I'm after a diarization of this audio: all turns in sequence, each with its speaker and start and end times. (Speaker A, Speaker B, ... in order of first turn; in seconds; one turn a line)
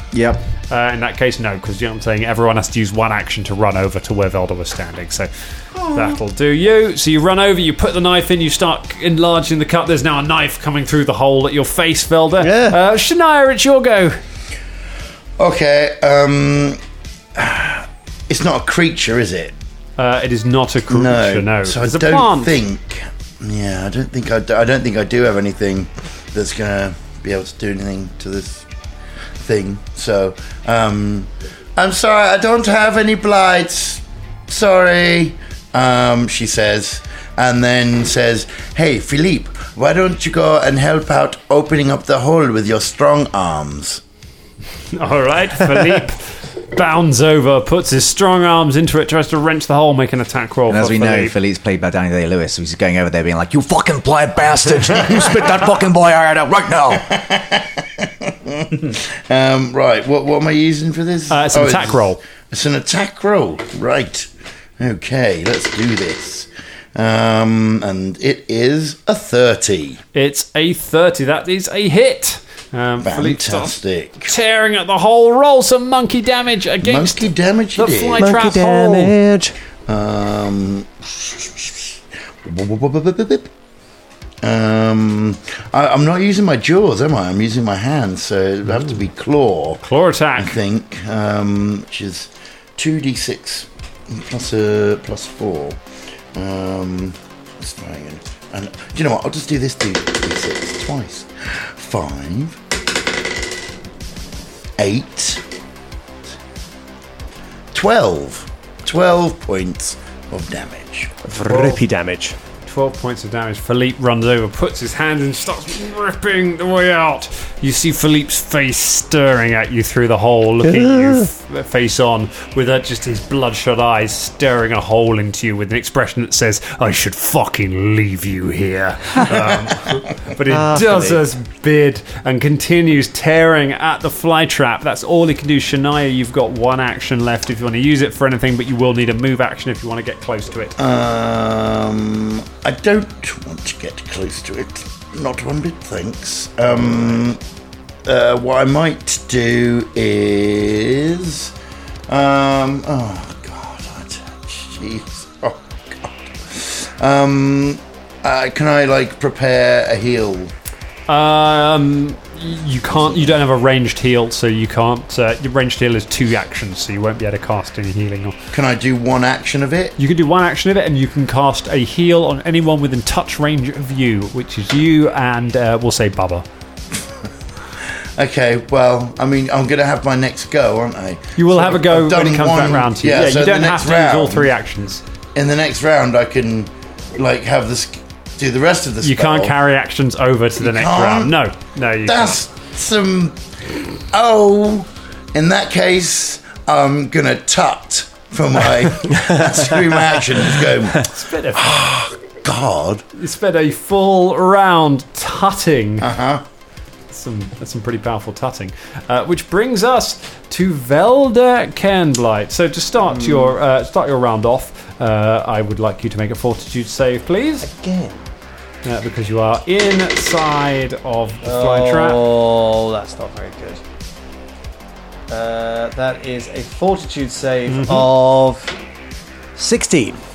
Speaker A: 0.1-0.4
Speaker B: 0.7-14.2
Speaker C: 12.4-12.8
Speaker D: 15.4-16.8
Speaker D: 17.4-19.6
Speaker B: 20.0-22.6
Speaker D: 20.9-28.7
Speaker D: 29.4-44.0
Speaker B: 44.9-51.4
Speaker A: 50.7-54.0
Speaker E: 53.7-57.0
Speaker D: 57.0-64.3
Speaker B: 61.3-62.2
Speaker D: 64.8-70.0
Speaker B: 70.1-79.2
Speaker D: 73.0-74.3
Speaker D: 76.8-78.3
Speaker C: 78.2-79.5
Speaker D: 79.9-81.9
Speaker D: 82.5-83.5
Speaker D: 84.4-89.8
Speaker B: 89.8-90.6
Speaker D: 90.4-95.8
Speaker D: 96.3-102.6
Speaker D: 104.8-105.4
Speaker D: 107.7-111.1
Speaker C: 111.2-112.4
Speaker B: 111.3-111.8
Speaker B: 112.7-140.8
Speaker C: 120.6-121.3
Speaker C: 130.5-131.2
Speaker D: 140.8-147.4
Speaker D: 148.1-151.5
Speaker D: 152.1-160.5
Speaker B: 161.1-168.3
Speaker D: 168.5-169.9
Speaker B: 170.0-176.4
Speaker D: 178.2-184.5
Speaker B: 181.4-185.0
Speaker D: 185.3-189.6
Speaker B: 189.0-192.4
Speaker D: 190.6-191.4
Speaker D: 192.1-203.0
Speaker B: 201.0-201.8
Speaker B: 203.2-206.1
Speaker D: 206.0-206.4
Speaker B: 207.1-217.7
Speaker C: 213.1-213.6
Speaker C: 217.6-218.2
Speaker B: 218.8-222.2
Speaker C: 221.4-223.8
Speaker C: 225.3-228.8
Speaker B: 227.7-228.1
Speaker C: 229.6-230.2